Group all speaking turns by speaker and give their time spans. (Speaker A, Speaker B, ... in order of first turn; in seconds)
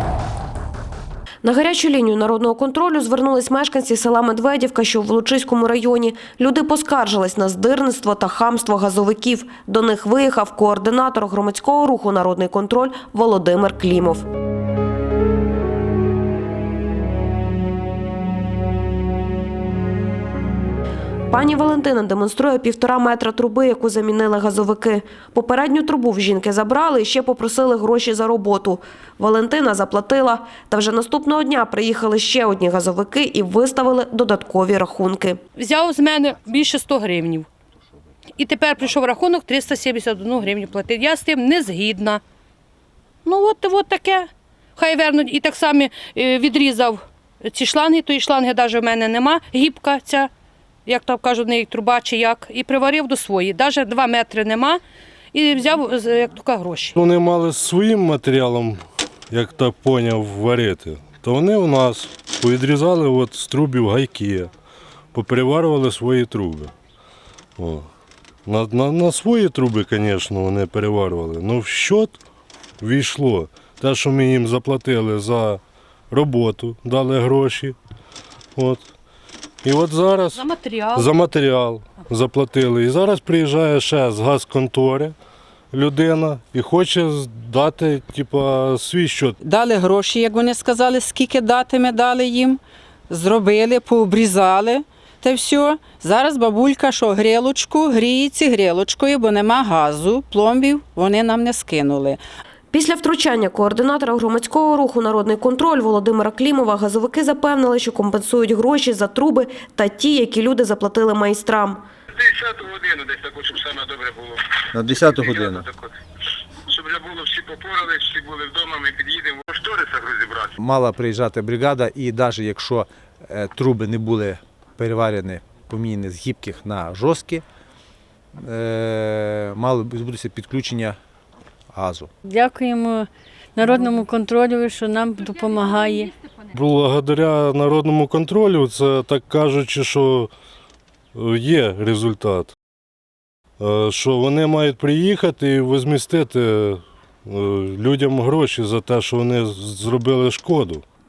Speaker A: 1.4-14.2, 21.3-35.4, 102.7-111.8
Speaker B: 35.6-37.5, 38.4-42.2, 43.2-50.3, 50.9-54.8, 55.3-57.0, 80.3-81.1
Speaker C: 57.0-58.8, 59.3-64.5, 65.1-66.7, 67.6-67.9, 68.5-72.2, 72.8-77.8, 78.5-78.8, 79.6-80.4, 80.9-85.1, 85.7-89.4, 136.5-140.3, 141.1-142.5, 143.6-150.8
Speaker D: 89.4-102.2
Speaker E: 112.1-115.9, 116.7-120.5
Speaker F: 114.7-115.7, 120.6-127.4, 128.4-131.0, 131.7-132.1
Speaker G: 132.2-136.1